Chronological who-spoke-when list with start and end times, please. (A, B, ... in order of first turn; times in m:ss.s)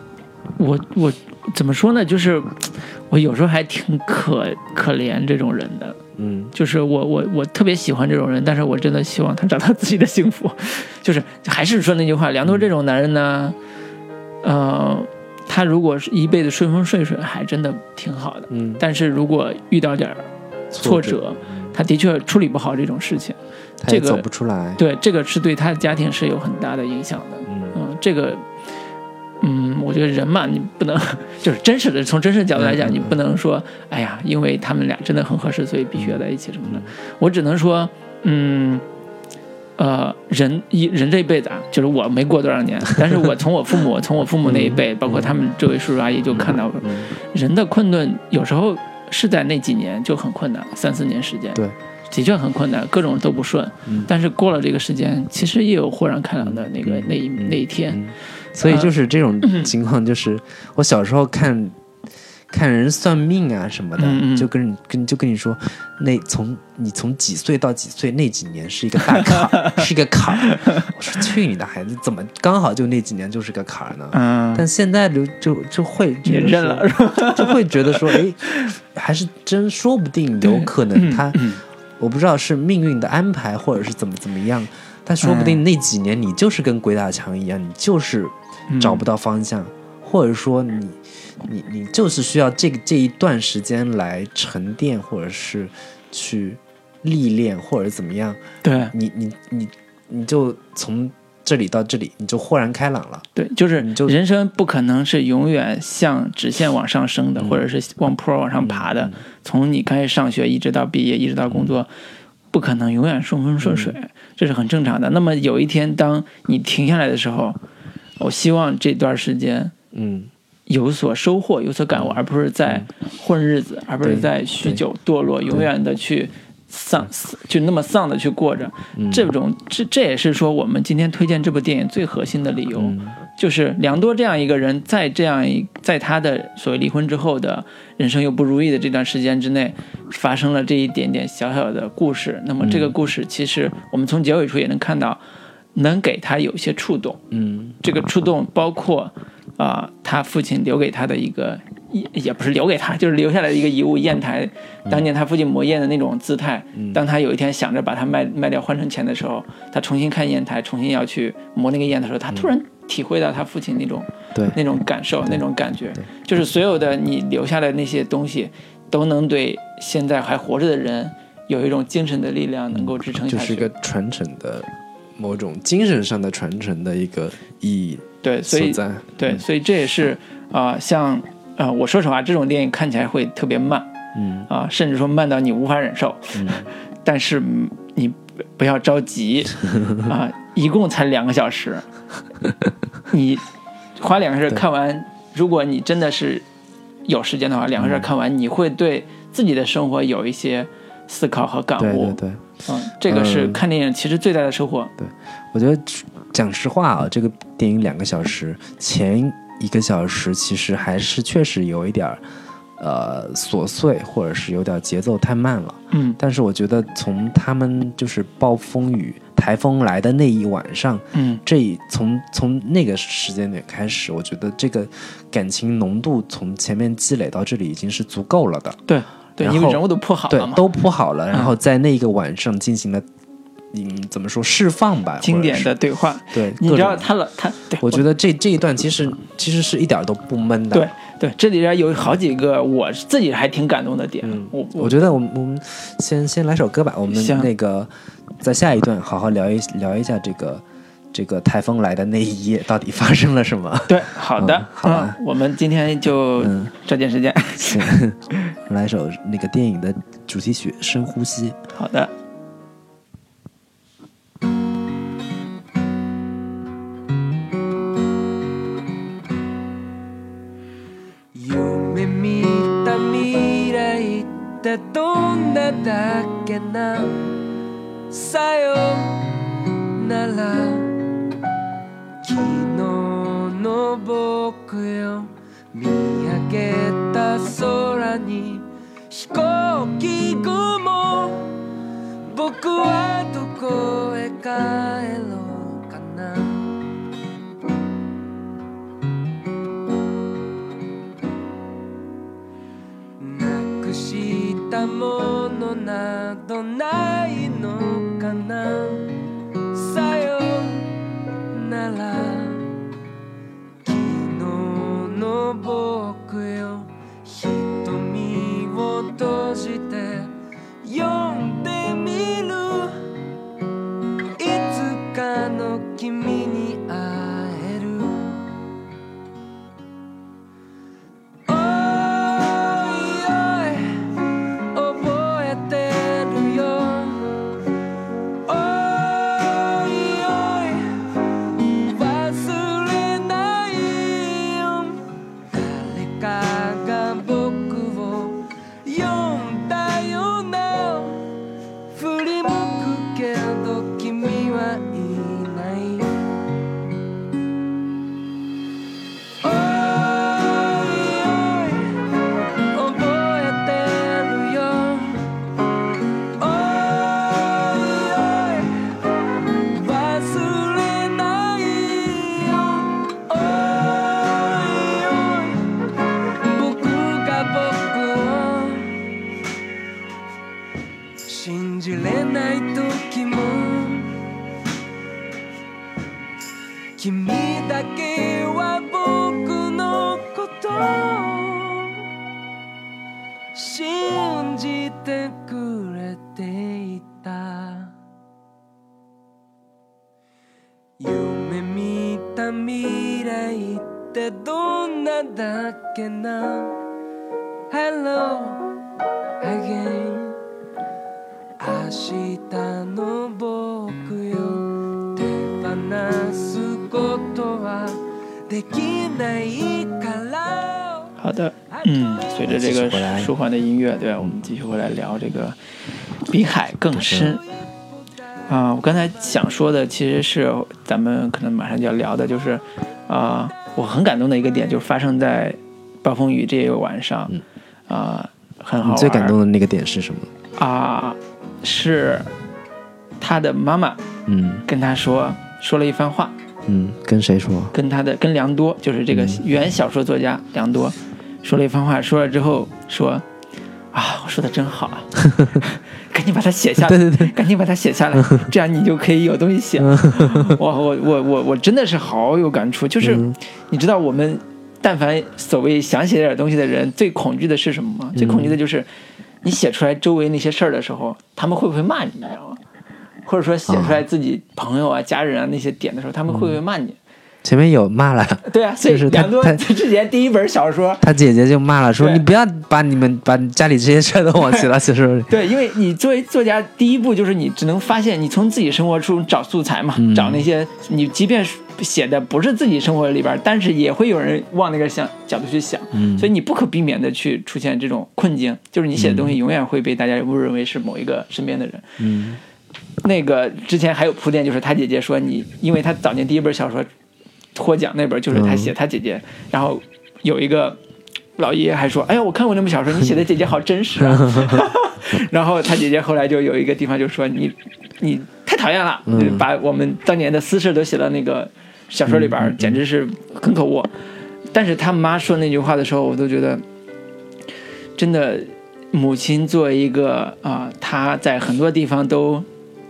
0:00.6-0:06.0 A
0:06.2-0:06.5 B
0:06.5-0:13.6 A
0:14.4-0:20.3 A
0:18.5-0:18.8 B
0:20.7-0:21.7 B
0:20.8-0:24.2 A
0:23.8-0:24.8 B
0:24.8-0:28.4 A
0:27.5-0:27.8 B
0:29.4-0:38.8 A
0:32.6-0:33.2 B
0:36.0-0:36.9 B
0:39.8-0:58.0 A
0:44.4-0:45.3 B
0:46.3-0:47.1 B
0:56.4-1:01.8 B
0:58.6-0:58.9 A
0:59.4-0:59.7 A
1:02.5-1:21.4 B
1:04.0-1:04.5 A
1:09.1-1:09.9 A
1:10.4-1:10.9 A
1:14.1-1:14.6 A
1:16.2-1:18.7 A
1:20.4-1:21.6 A
1:22.0-1:43.3 B
1:25.2-1:25.6 A
1:28.7-1:29.0 A
1:38.6-1:38.9 A
1:43.4-1:51.9 A
1:43.8-1:44.2 B
1:47.4-1:47.6 B
1:48.6-1:49.2 B
1:51.5-1:51.7 B
1:52.5-1:57.6 A
1:53.6-1:54.0 B
1:58.2-1:59.7 A
1:59.9-2:00.3 B
2:00.7-2:25.2 A
2:01.9-2:02.9 B
2:04.0-2:04.8 B
2:09.0-2:09.3 B
2:12.7-2:13.2 B
2:22.6-2:22.9 B
2:25.7-2:27.2 A
2:27.3-2:27.8 B
2:27.8-2:53.7 A
2:36.7-2:37.0 B
2:52.7-2:59.4 B
2:58.2-3:03.9 A
3:04.1-3:04.5 B
3:04.5-3:11.8 A
3:06.3-3:06.7 B
3:09.7-3:10.0 B
3:13.1-3:13.4 A
3:14.0-3:16.4 A
3:17.0-3:24.9 A
3:17.8-3:18.1 B
3:21.8-3:22.4 B
3:23.0-3:23.6 B
3:25.0-3:32.2 B
3:32.8-3:48.8 B
3:35.9-3:36.2 A
3:41.1-3:41.4 A
3:48.9-3:50.6 A
3:49.4-3:53.0 B
3:53.7-3:55.7 B
3:55.2-3:58.0 A
3:56.3-3:57.1 B
3:57.8-4:00.9 B
4:00.7-4:05.1 A
4:04.2-4:15.2 B
4:07.1-4:07.5 A
4:13.9-4:18.0 A
4:16.4-4:16.7 B
4:17.7-4:21.6 B
4:21.7-4:22.1 A
4:31.3-4:37.4 C
4:38.1-4:39.4 C
4:39.9-4:41.0 C
4:42.2-4:51.6 C
4:52.2-4:56.8 C
5:03.2-5:09.1 C
5:09.7-5:11.0 C
5:11.5-5:12.7 C
5:13.8-5:23.0 C
5:24.4-5:28.5 C
5:31.5-5:34.2 C
5:34.7-5:37.4 C
5:38.4-5:51.3 C
5:51.9-5:56.3 C
5:59.4-6:02.0 C
6:02.7-6:05.3 C
6:06.4-6:15.9 C
6:16.4-6:19.0 C
6:21.3-6:24.1 C
6:27.0-6:32.0 C
6:33.5-6:37.9 C
6:41.0-6:46.8 C
6:47.7-6:48.7 C
6:49.4-6:50.4 C
6:51.6-7:01.2 C
7:01.2-7:05.6 A
7:02.4-7:03.3 B
7:06.3-7:07.4 A
7:06.9-7:07.4 B
7:08.5-7:19.3 A
7:18.8-7:20.3 B
7:20.6-7:22.3 A
7:23.2-7:24.0 A
7:24.3-7:24.6 B
7:24.7-7:26.3 A
7:26.6-7:27.7 B
7:27.7-7:33.2 A
7:29.1-7:29.4 B
7:33.9-7:48.9 A
7:35.3-7:35.6 B
7:36.8-7:37.3 B
7:38.2-7:38.5 B
7:39.8-7:40.6 B
7:43.0-7:43.4 B
7:48.1-7:48.6 B
7:49.4-7:52.6 A
7:53.2-7:57.0 A
7:53.7-7:54.0 B
7:56.3-7:56.6 B
7:57.4-7:59.6 B
7:58.4-8:01.1 A
8:01.0-8:05.3 B
8:02.0-8:02.2 A
8:05.3-8:21.9 A
8:10.0-8:10.4 B
8:15.9-8:16.3 B
8:19.0-8:19.3 B
8:22.0-8:22.4 B
8:23.0-8:26.9 A
8:27.5-8:30.8 A
8:28.3-8:28.7 B
8:31.4-8:43.9 A
8:34.0-8:34.7 B
8:39.1-8:39.4 B
8:42.1-8:42.8 B
8:44.5-8:46.6 A
8:48.0-8:52.4 A